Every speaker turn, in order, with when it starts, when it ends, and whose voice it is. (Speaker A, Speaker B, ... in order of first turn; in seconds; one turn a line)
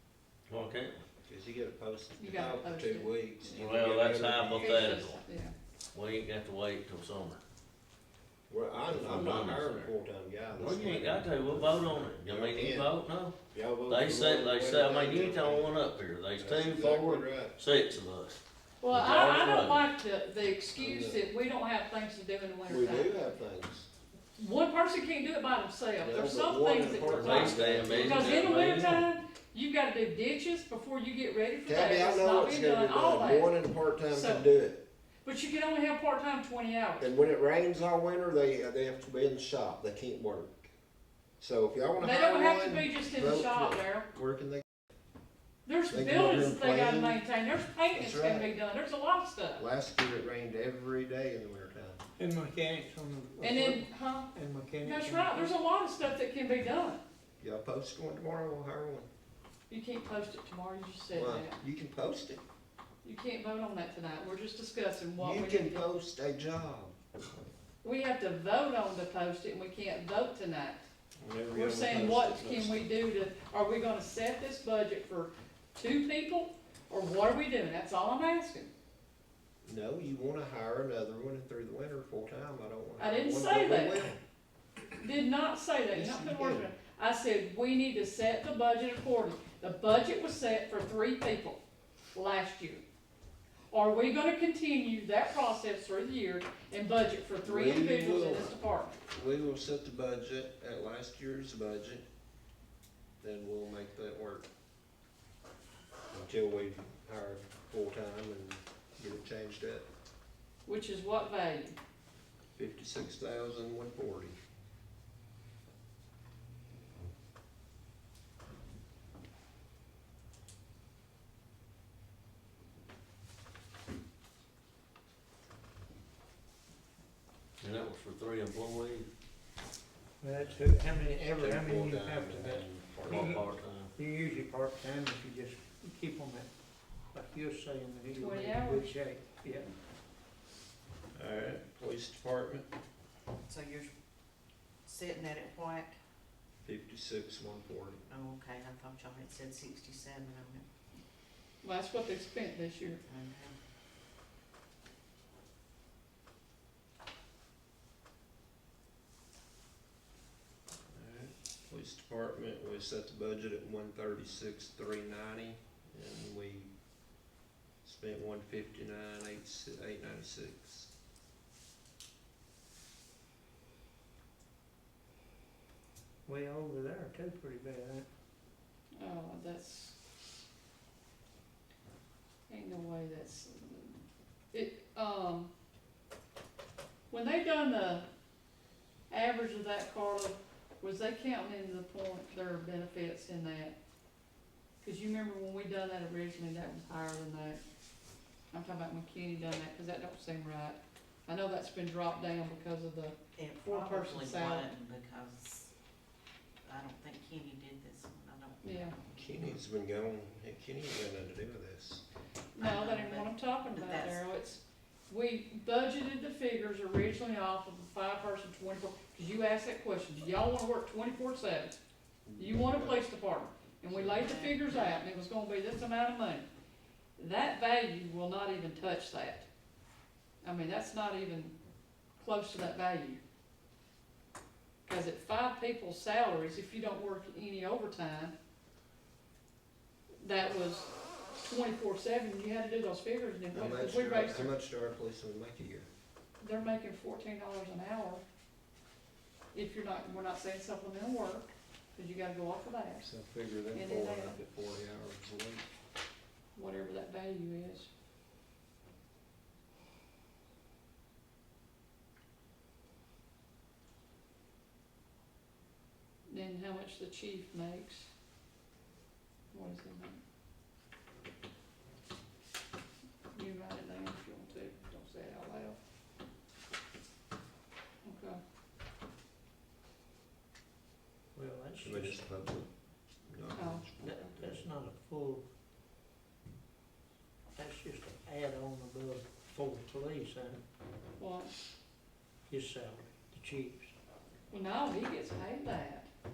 Speaker A: 0.5-1.0
Speaker B: 1.2-4.9
Speaker C: 2.2-3.8
Speaker A: 3.5-5.2
Speaker C: 4.5-5.5
Speaker A: 5.9-7.4
Speaker B: 8.5-12.9
Speaker A: 8.9-9.9
Speaker A: 10.5-13.3
Speaker B: 13.5-17.6
Speaker A: 13.9-18.4
Speaker C: 18.8-23.2
Speaker A: 18.9-19.9
Speaker B: 20.8-21.3
Speaker B: 22.6-23.9
Speaker C: 24.4-33.5
Speaker B: 26.0-28.6
Speaker A: 27.0-29.0
Speaker B: 31.6-34.8
Speaker C: 34.1-34.5
Speaker C: 35.2-37.1
Speaker B: 37.0-40.7
Speaker B: 41.4-44.6
Speaker C: 42.0-44.0
Speaker C: 45.6-49.6
Speaker B: 45.9-47.2
Speaker B: 47.9-48.5
Speaker B: 49.6-52.0
Speaker D: 52.2-55.5
Speaker C: 53.4-54.3
Speaker C: 54.8-57.0
Speaker B: 57.4-59.1
Speaker C: 59.7-61.6
Speaker B: 61.1-62.4
Speaker C: 63.0-65.9
Speaker B: 65.2-66.9
Speaker C: 67.8-70.8
Speaker B: 71.2-72.9
Speaker C: 71.5-78.7
Speaker B: 79.6-84.2
Speaker C: 83.0-84.1
Speaker C: 85.0-91.6
Speaker B: 85.9-86.7
Speaker C: 92.1-92.8
Speaker C: 93.7-98.9
Speaker B: 97.4-102.0
Speaker B: 103.2-104.5
Speaker B: 106.1-109.8
Speaker C: 110.6-111.8
Speaker B: 112.5-114.4
Speaker A: 127.6-129.1
Speaker D: 130.2-136.5
Speaker B: 130.9-133.5
Speaker A: 133.1-133.9
Speaker D: 137.1-139.7
Speaker C: 138.1-138.9
Speaker B: 141.1-142.7
Speaker E: 143.4-143.9
Speaker E: 144.8-145.9
Speaker B: 146.6-148.0
Speaker E: 148.1-150.7
Speaker C: 151.6-153.0
Speaker E: 152.9-153.6
Speaker B: 160.9-166.7
Speaker B: 167.8-170.9
Speaker D: 176.2-178.1
Speaker C: 178.9-179.9
Speaker C: 182.5-185.5
Speaker C: 187.1-188.1
Speaker C: 189.1-193.8
Speaker C: 194.8-197.6
Speaker C: 198.5-204.7
Speaker E: 203.3-205.7
Speaker E: 206.6-208.8
Speaker C: 208.6-208.9
Speaker B: 209.1-212.0
Speaker C: 212.5-221.8
Speaker E: 212.6-214.2
Speaker B: 222.2-223.0
Speaker C: 222.4-226.5
Speaker E: 223.9-224.8
Speaker C: 227.2-229.5
Speaker C: 230.4-231.5
Speaker C: 232.2-233.2
Speaker C: 234.8-238.3
Speaker C: 240.2-244.5
Speaker B: 243.5-245.9
Speaker C: 246.4-248.2
Speaker C: 249.5-253.0
Speaker B: 253.0-255.7
Speaker C: 253.7-254.4
Speaker C: 256.5-257.9
Speaker C: 266.3-268.1
Speaker C: 269.5-270.2
Speaker C: 273.3-275.8
Speaker C: 278.0-278.4
Speaker D: 281.3-282.2
Speaker B: 281.8-282.7
Speaker B: 283.3-284.7
Speaker C: 283.5-283.8
Speaker D: 284.0-285.4
Speaker D: 287.5-290.6
Speaker C: 291.2-291.5
Speaker D: 292.5-293.9
Speaker C: 294.5-296.1